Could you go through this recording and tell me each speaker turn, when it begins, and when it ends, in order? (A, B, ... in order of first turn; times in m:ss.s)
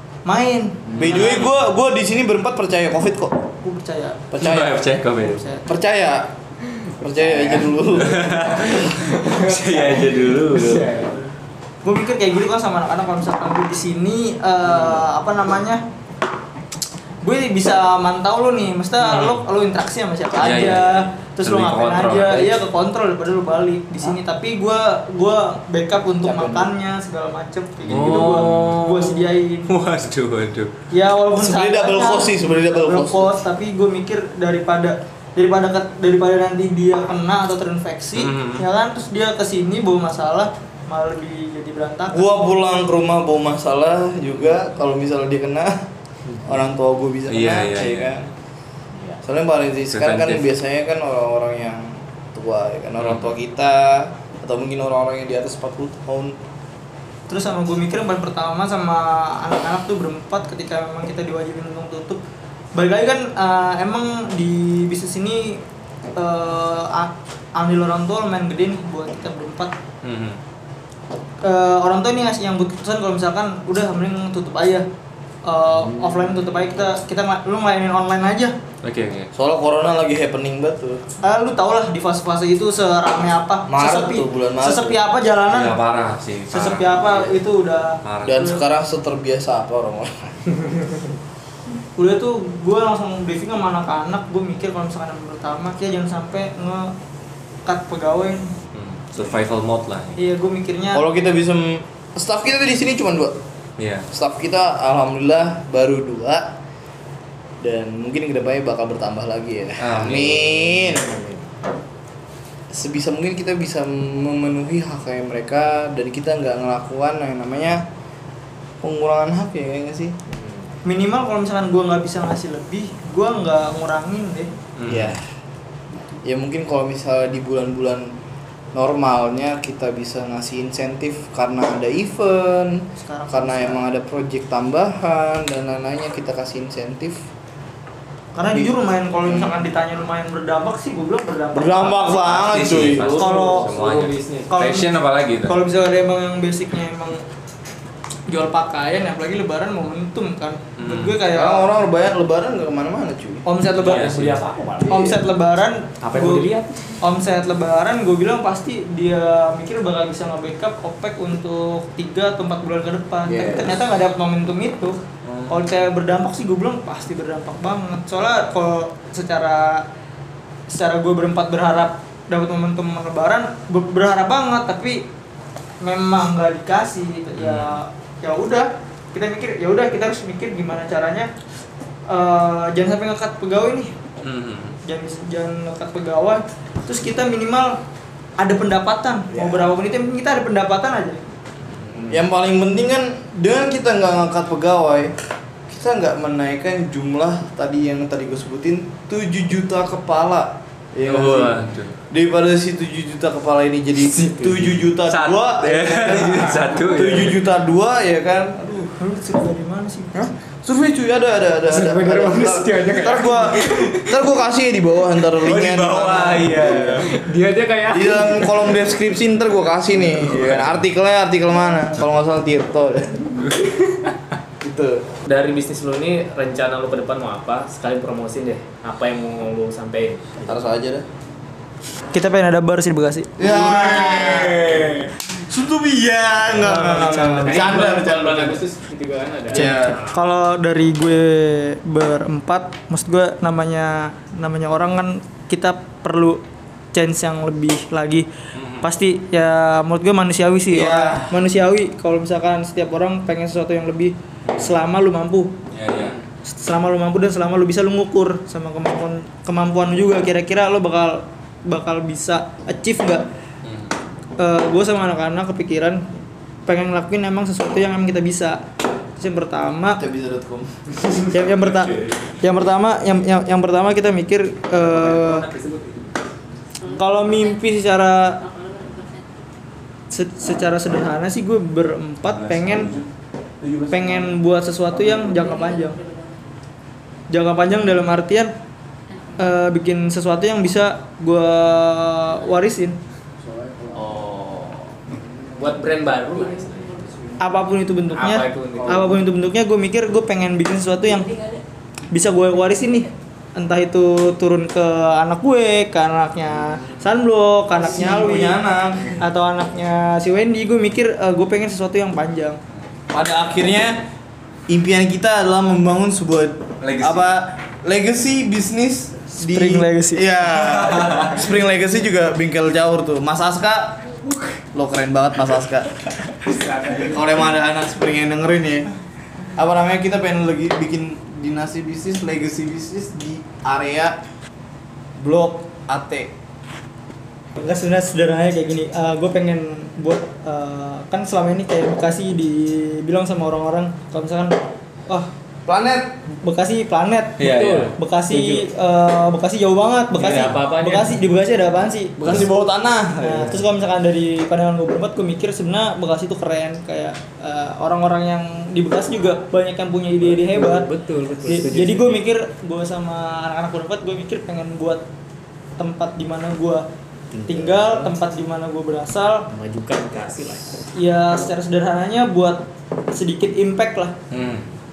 0:00.3-0:01.0 A
0:01.0-0:01.5 B
0:01.0-0:03.4 C
0:03.6-0:04.3 A
0:04.3-0:04.9 C
0:04.4-0:05.4 B
0:05.1-0:05.6 A
0:05.6-0:06.3 C
0:07.0-0:08.9 C
0:07.9-0:11.0 B
0:08.9-0:11.3 D
0:11.8-0:15.8 A
0:17.2-0:29.7 A
0:19.0-0:19.4 B
0:20.4-0:22.6 B
0:26.2-0:26.7 C
0:27.8-0:30.7 B
0:30.9-0:42.3 A
0:31.4-0:33.4 C
0:38.2-0:38.7 B
0:42.1-0:45.8 C
0:46.4-0:48.3 C
0:47.3-0:48.2 B
0:49.0-0:49.2 D
0:49.2-0:56.4 C
0:49.9-0:50.5 B
0:53.0-0:53.3 B
0:57.3-1:02.2 A
1:02.8-1:05.6 A
1:06.2-1:09.7 A
1:10.0-1:10.4 B
1:11.4-1:14.9 A
1:15.5-1:18.5 A
1:18.8-1:19.3 B
1:19.3-1:21.0 C
1:21.2-1:25.8 A
1:23.7-1:25.0 C
1:25.5-1:27.4 B
1:26.5-1:28.6 A
1:28.0-1:28.4 B
1:28.2-1:30.6 C
1:32.0-1:36.9 A
1:37.7-1:38.5 A
1:38.8-1:40.2 B
1:40.2-1:41.0 A
1:40.9-1:43.4 C
1:43.8-1:44.1 B
1:44.1-1:46.6 C
1:47.6-1:51.1 C
1:49.8-1:50.6 B
1:50.8-1:51.5 D
1:52.7-1:57.9 C
1:58.8-2:00.2 C
2:00.3-2:00.7 D
2:00.8-2:04.5 A
2:04.8-2:05.2 B
2:04.9-2:05.2 C
2:06.2-2:08.2 C
2:08.7-2:17.3 C
2:13.0-2:13.8 A
2:18.4-2:22.3 A
2:19.2-2:19.5 C
2:21.5-2:23.2 C
2:22.2-2:25.6 B
2:23.0-2:24.6 D
2:23.2-2:23.8 A
2:24.5-2:27.2 A
2:28.3-2:31.7 A
2:30.8-2:31.2 B
2:31.3-2:33.4 C
2:33.4-2:34.1 A
2:33.7-2:35.0 D
2:33.8-2:34.4 B
2:34.8-2:35.2 C
2:34.9-2:36.5 A
2:36.0-2:36.7 D
2:37.0-2:49.8 A
2:43.3-2:43.8 C
2:45.2-2:45.6 C
2:50.7-2:55.0 A
2:55.8-3:01.3 A
2:57.4-2:57.8 B
3:02.1-3:04.0 A
3:04.2-3:04.8 B
3:04.8-3:07.8 A
3:08.4-3:11.2 A
3:09.3-3:09.7 C
3:12.0-3:15.2 C
3:15.7-3:28.6 C
3:21.0-3:22.0 B
3:24.1-3:24.7 D
3:25.0-3:27.3 B
3:28.6-3:30.3 A
3:30.2-3:37.1 C
3:31.7-3:34.2 D
3:35.4-3:37.1 B
3:36.7-3:38.8 D
3:37.9-3:43.5 C
3:40.3-3:40.6 D
3:43.4-3:43.7 B
3:44.6-3:45.0 C
3:45.2-3:50.4 D
3:50.5-3:51.1 C
3:52.1-3:53.4 A
3:53.4-3:58.6 C
3:53.4-3:55.1 B
3:56.5-3:57.8 A
3:57.4-4:00.2 D
3:59.5-4:00.0 C
3:59.6-4:06.4 A
4:06.9-4:08.3 A
4:08.6-4:08.9 B
4:08.8-4:15.5 A
4:10.7-4:11.4 C
4:15.8-4:16.2 B
4:16.5-4:23.3 A
4:24.4-4:26.1 A
4:26.7-4:28.6 A
4:29.2-4:30.0 A
4:29.9-4:30.9 C
4:31.3-4:35.5 A
4:31.9-4:32.1 B
4:34.8-4:36.1 D
4:36.8-4:38.6 A
4:40.1-4:43.0 A
4:42.3-4:43.0 B
4:43.6-4:44.4 C
4:43.9-4:46.0 A
4:47.3-4:48.5 A
4:49.3-4:53.0 A
4:53.4-4:55.9 C
4:54.0-4:54.7 D
4:55.6-4:57.1 D
4:57.4-5:12.6 A
4:58.1-4:59.1 D
4:58.7-4:59.2 C
5:07.7-5:09.1 C
5:13.1-5:14.1 C
5:14.7-5:24.2 C
5:16.8-5:17.3 B
5:19.4-5:20.3 A
5:20.9-5:21.3 B
5:24.7-5:26.0 C
5:26.5-5:27.0 D
5:26.5-5:28.9 C
5:29.6-5:34.2 C
5:35.2-5:36.3 C
5:37.6-5:45.3 A
5:45.7-5:46.2 C
5:46.3-5:52.2 A
5:47.4-5:48.7 D
5:47.4-5:48.0 B
5:50.2-5:51.2 D
5:52.2-5:53.6 C
5:53.2-6:00.9 A
6:00.3-6:02.2 D
6:01.4-6:05.0 A
6:05.8-6:06.9 A
6:07.4-6:07.6 D
6:07.4-6:07.9 C
6:07.5-6:09.5 A
6:09.5-6:10.8 D
6:11.0-6:14.2 A
6:14.3-6:14.7 B